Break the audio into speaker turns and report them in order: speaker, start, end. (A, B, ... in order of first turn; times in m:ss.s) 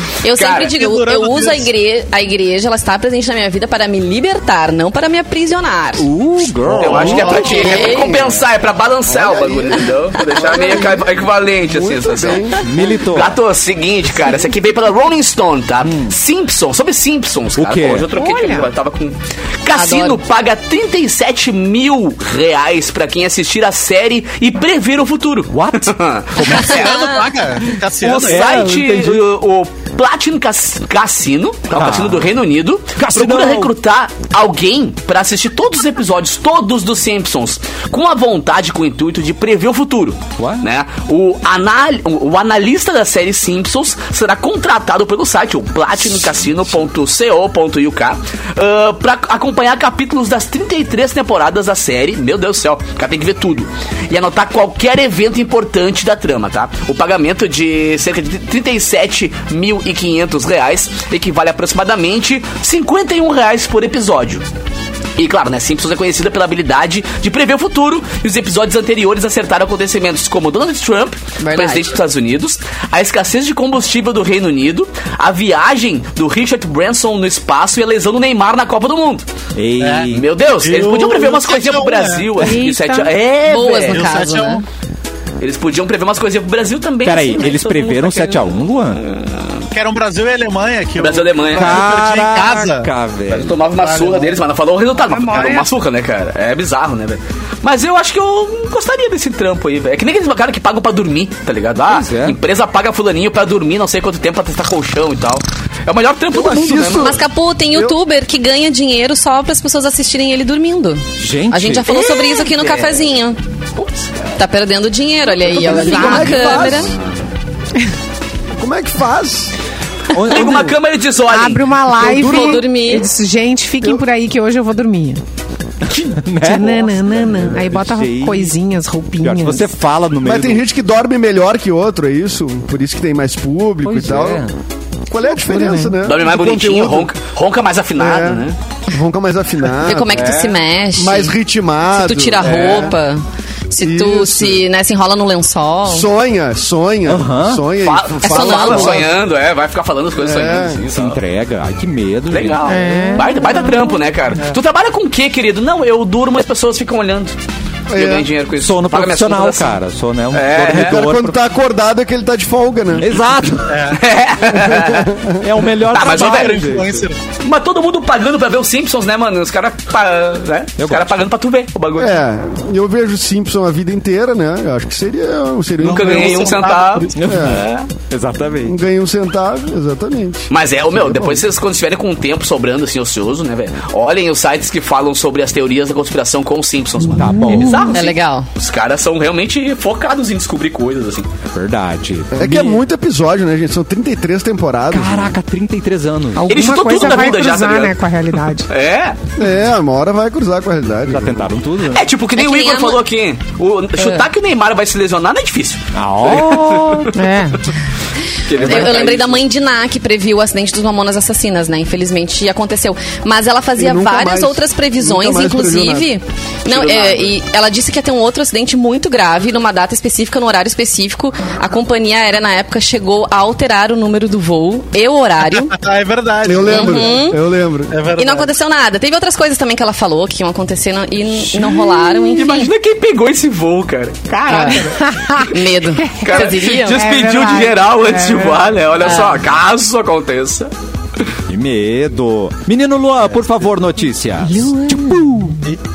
0:00.2-0:06.1 A
0:00.3-0:00.8 B
0:00.8-0:01.7 C
0:06.0-0:07.6 D
0:06.6-0:07.9 C
0:06.7-0:27.0 B
0:07.3-0:08.3 A
0:09.1-0:10.8 E
0:10.3-0:11.0 A
0:11.6-0:12.6 E
0:12.6-0:13.4 D
0:15.8-0:16.2 D
0:17.6-0:18.1 D
0:18.1-0:18.7 F
0:19.7-0:20.2 A
0:25.5-0:26.8 D
0:26.7-0:28.5 C
0:26.8-0:27.2 A
0:28.0-0:29.2 D
0:28.1-1:04.4 B
0:31.8-0:32.3 D
0:33.0-0:33.7 D
0:40.4-0:40.6 D
1:05.2-1:19.2 B
1:11.4-1:11.9 A
1:19.6-1:20.3 D
1:19.8-1:20.1 C
1:20.1-1:24.2 B
1:20.6-1:22.4 C
1:22.4-1:23.1 F
1:23.4-1:24.6 A
1:23.9-1:24.6 C
1:25.4-1:29.7 B
1:27.0-1:29.0 D
1:29.7-1:32.9 C
1:31.0-1:31.8 B
1:31.6-1:33.6 D
1:33.3-1:47.2 B
1:33.8-1:34.4 C
1:35.1-1:35.7 C
1:41.9-1:42.4 D
1:46.3-1:48.0 E
1:47.0-1:53.4 A
1:51.2-1:51.9 D
1:51.9-1:53.1 B
1:53.8-1:54.0 B
1:54.4-1:57.0 A
1:55.5-1:56.9 E
1:55.6-1:57.0 B
1:55.7-1:56.4 F
1:56.0-1:56.5 D
1:58.6-1:59.5 E
2:00.1-2:00.8 D
2:00.2-2:01.7 B
2:01.3-2:05.2 F
2:02.0-2:03.1 A
2:02.1-2:02.5 E
2:05.9-2:08.6 D
2:06.4-2:09.7 F
2:09.2-2:10.6 D
2:10.2-2:14.5 E
2:13.8-2:14.5 D
2:15.1-2:17.1 E
2:15.4-2:16.0 F
2:16.0-2:18.6 B
2:18.0-2:23.0 E
2:19.8-2:21.4 A
2:20.2-2:20.5 B
2:21.9-2:26.1 A
2:22.4-2:22.9 B
2:23.8-2:24.7 E
2:25.9-2:29.1 E
2:27.1-2:27.6 D
2:27.8-2:31.2 B
2:28.2-2:29.1 A
2:30.2-2:30.8 E
2:30.9-2:32.8 D
2:32.3-2:37.4 B
2:32.6-2:33.9 F
2:37.9-2:38.3 E
2:37.9-2:39.8 B
2:38.6-2:41.4 D
2:40.3-2:41.0 B
2:40.7-2:43.2 E
2:43.0-2:43.8 D
2:43.7-2:44.0 C
2:43.9-2:45.2 B
2:44.5-2:45.6 E
2:45.4-2:47.1 D
2:45.9-2:46.6 B
2:45.9-2:47.2 C
2:47.4-2:52.2 B
2:50.8-2:51.1 D
2:52.0-2:56.6 E
2:55.8-2:57.3 C
2:55.8-2:57.9 B
2:57.2-2:58.8 D
2:57.2-2:57.6 E
2:58.6-3:00.5 E
3:00.5-3:11.3 B
3:01.0-3:01.4 E
3:07.1-3:07.9 D
3:07.2-3:08.0 F
3:07.9-3:08.5 A
3:11.5-3:12.8 D
3:12.4-3:15.4 E
3:14.9-3:16.5 D
3:16.4-3:18.7 F
3:16.5-3:17.9 B
3:18.7-3:19.2 B
3:19.4-3:21.5 E
3:21.1-3:22.0 D
3:21.9-3:27.1 B
3:22.4-3:23.0 A
3:24.0-3:24.2 A
3:25.9-3:27.1 D
3:27.1-3:27.6 F
3:28.5-3:29.4 B
3:28.6-3:45.8 A
3:33.8-3:36.1 E
3:36.7-3:37.4 B
3:45.7-3:47.3 C
3:46.4-3:48.0 E
3:46.7-3:47.4 A
3:47.9-3:48.5 C
3:48.2-3:52.7 A
3:51.7-3:54.9 B
3:54.5-3:54.9 A
3:54.8-3:58.8 F
3:55.5-3:57.0 A
3:56.2-4:00.7 B
3:59.0-3:59.4 A
4:01.5-4:05.6 D
4:04.5-4:05.3 F